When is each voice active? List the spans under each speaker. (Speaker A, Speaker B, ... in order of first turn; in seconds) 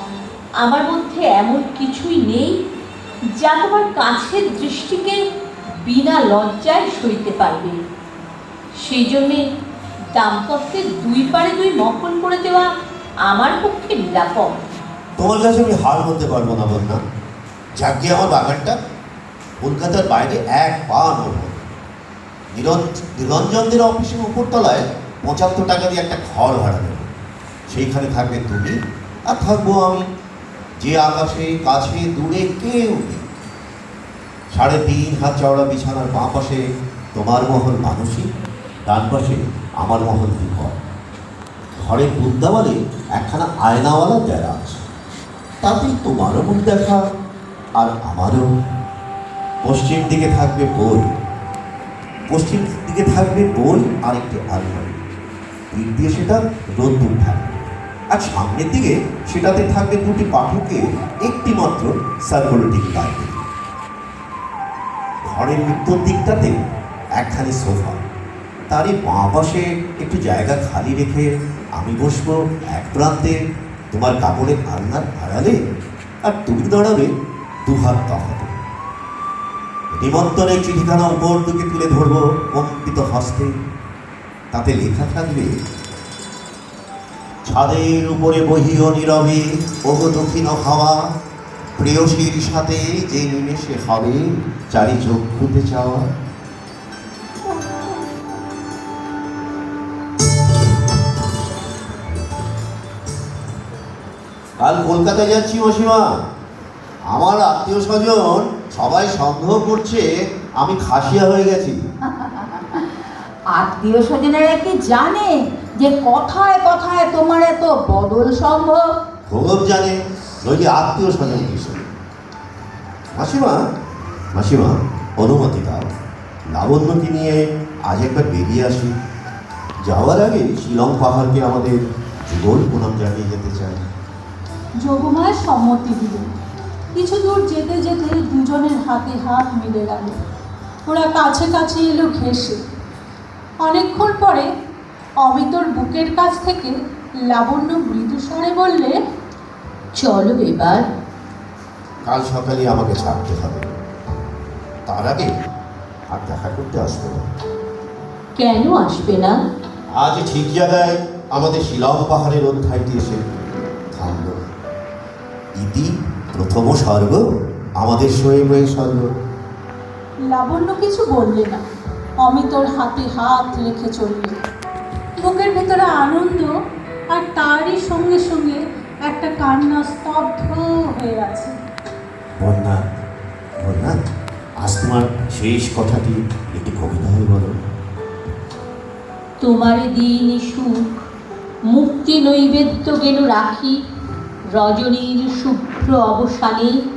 Speaker A: 0.6-2.6, 3.4-5.2, 5.8-7.8, 8.8-9.4, 10.2-12.7, 13.3-14.6, 150.0-150.8, 158.4-159.4, 189.4-190.7, 191.7-193.8, 194.6-196.7
Speaker B: 15.2-17.0, 17.8-18.8, 19.6-21.7, 22.5-27.1, 27.7-28.8, 29.3-30.0, 30.8-33.2, 34.5-36.6, 37.1-38.3, 38.9-40.8, 41.8-44.8, 45.6-47.0, 47.8-48.5, 49.6-51.1, 52.3-55.0, 55.7-63.4, 65.2-66.6, 67.2-68.0, 68.7-71.3, 71.8-73.3, 73.9-75.6, 76.3-77.1, 77.7-78.5, 80.0-83.5, 84.5-85.5, 87.5-91.0, 91.8-96.1, 104.6-106.1, 107.1-110.0, 110.6-111.8, 119.3-121.8, 123.1-123.6, 124.3-125.9, 126.5-128.9, 129.8-133.9, 152.1-153.7, 154.9-155.3, 156.1-157.3, 159.9-163.3, 163.9-164.4, 165.6-167.2, 167.8-169.1, 182.4-182.8, 183.6-184.0, 184.6-187.6
Speaker C: 112.1-112.9, 113.5-118.9
Speaker D: 134.8-136.3, 136.9-140.2, 140.9-142.6, 143.6-144.5, 145.2-146.7, 147.3-148.9, 170.3-171.6, 172.2-174.4, 175.2-176.5, 177.1-181.6